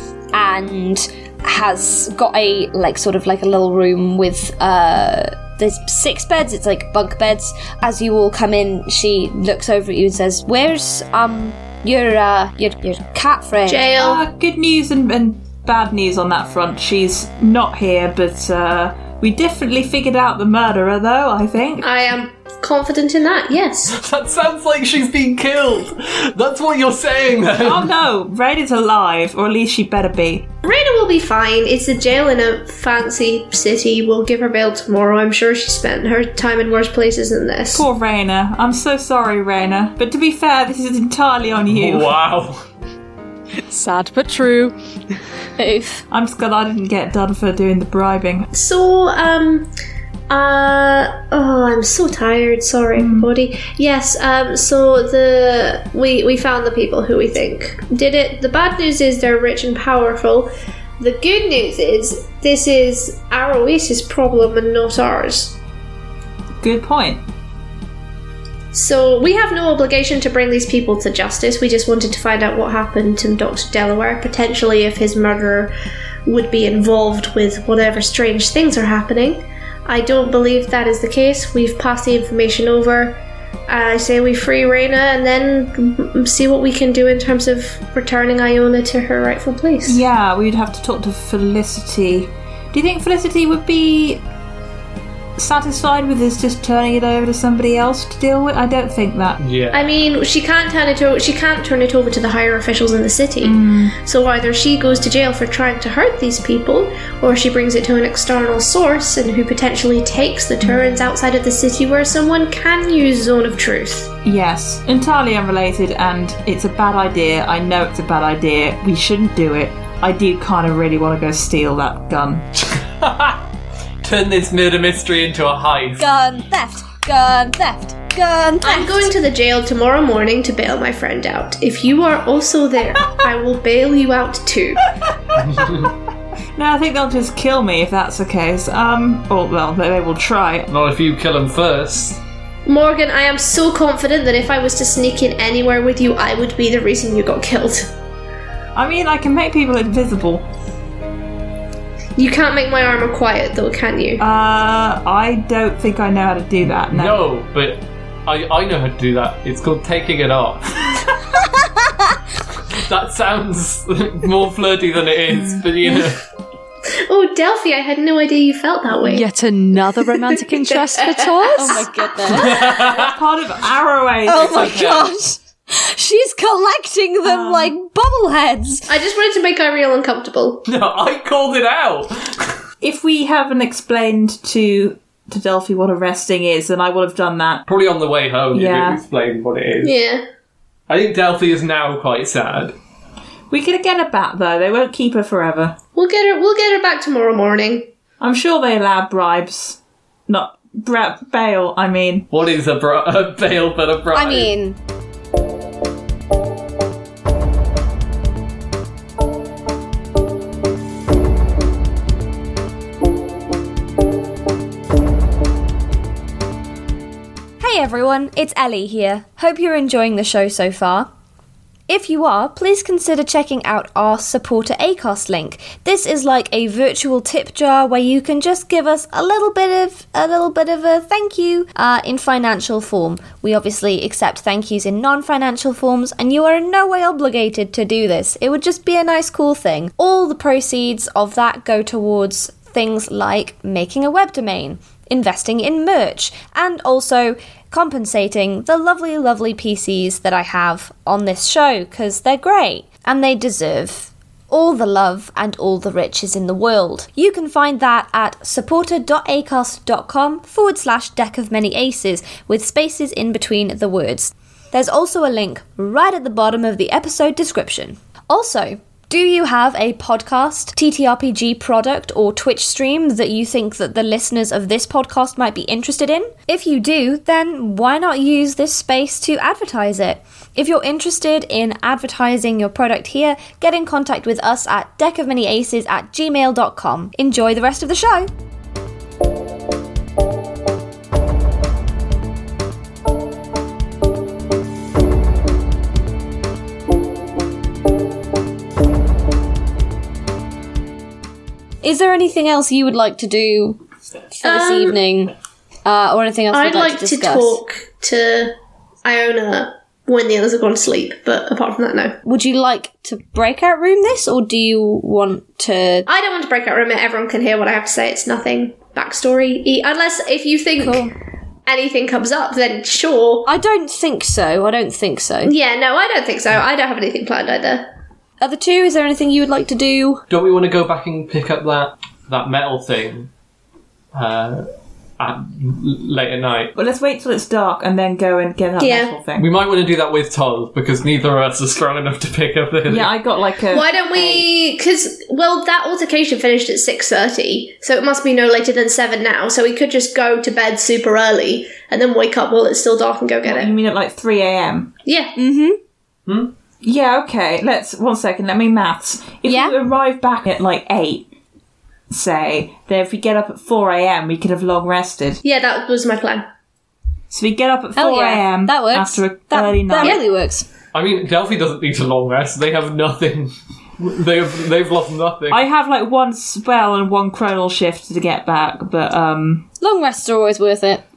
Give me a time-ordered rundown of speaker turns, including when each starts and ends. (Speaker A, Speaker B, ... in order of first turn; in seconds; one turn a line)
Speaker A: 0.3-13.9
Speaker B: 13.7-14.2
Speaker C: 14.0-21.9
Speaker B: 21.8-23.9
Speaker D: 23.9-27.9
Speaker C: 27.6-30.5
Speaker B: 30.6-37.9
Speaker C: 37.7-42.1
Speaker D: 41.7-42.6
Speaker E: 43.6-44.7
Speaker A: 45.6-46.0
Speaker C: 46.1-48.5
Speaker B: 48.5-49.7
Speaker B: 50.3-65.6
Speaker C: 53.0-53.3
Speaker C: 66.6-67.2
Speaker B: 68.7-75.7
Speaker B: 76.3-90.0
Speaker C: 89.8-94.2
Speaker C: 95.4-99.4
Speaker D: 99.4-99.8
Speaker B: 99.7-114.1
Speaker C: 103.4-104.0
Speaker C: 110.6-111.0
Speaker C: 114.2-122.5
Speaker D: 122.7-123.4
Speaker D: 124.0-126.1
Speaker A: 126.0-129.1
Speaker B: 128.6-134.9
Speaker D: 135.3-135.9
Speaker C: 136.6-140.7
Speaker D: 140.7-142.2
Speaker B: 142.7-147.9
Speaker C: 148.8-150.5
Speaker B: 152.2-154.2
Speaker C: 154.2-157.3
Speaker D: 156.9-161.1
Speaker D: 162.7-166.2
Speaker C: 165.3-165.6
Speaker B: 167.1-171.9
Speaker E: 169.0-172.3
Speaker A: 171.5-172.6
Speaker D: 172.3-173.2
Speaker C: 172.7-174.9
Speaker A: 174.3-178.9
Speaker D: 174.5-175.1
Speaker C: 177.2-177.7
Speaker B: 178.9-180.7
Speaker D: 180.7-182.5
Speaker C: 182.8-187.7
Speaker D: 187.7-190.0
Speaker C: 188.5-189.0
Speaker B: 189.8-190.2
Speaker D: 190.9-192.8
Speaker C: 193.5-195.8
Speaker B: 195.9-197.9
Speaker C: 198.2-202.3
Speaker D: 202.3-204.5
Speaker A: 204.1-204.8
Speaker A: 217.6-221.1
Speaker A: 221.9-288.3
Speaker A: 301.8-303.8
Speaker A: 304.4-305.3
Speaker B: 304.4-305.0
Speaker A: 305.9-307.6
Speaker B: 306.5-312.2
Speaker A: 312.2-316.1
Speaker B: 316.1-321.1
Speaker A: 320.8-321.1
Speaker B: 321.7-323.5
Speaker A: 323.5-325.6
Speaker B: 325.4-327.9
Speaker A: 328.4-330.2
Speaker D: 330.3-333.3
Speaker D: 334.1-334.7
Speaker D: 335.2-336.7
Speaker C: 336.8-339.5
Speaker B: 338.8-339.1
Speaker D: 339.4-343.1
Speaker C: 342.9-344.4
Speaker B: 343.7-353.8
Speaker C: 353.4-354.9
Speaker B: 355.1-355.4
Speaker A: 355.4-355.8
Speaker D: 356.3-356.5
Speaker C: 356.8-361.3
Speaker A: 359.5-359.8
Speaker C: 362.1-365.4
Speaker B: 365.4-366.5
Speaker C: 367.3-370.2
Speaker A: 368.0-370.7
Speaker D: 370.9-375.6
Speaker C: 375.5-379.7
Speaker A: 379.8-381.0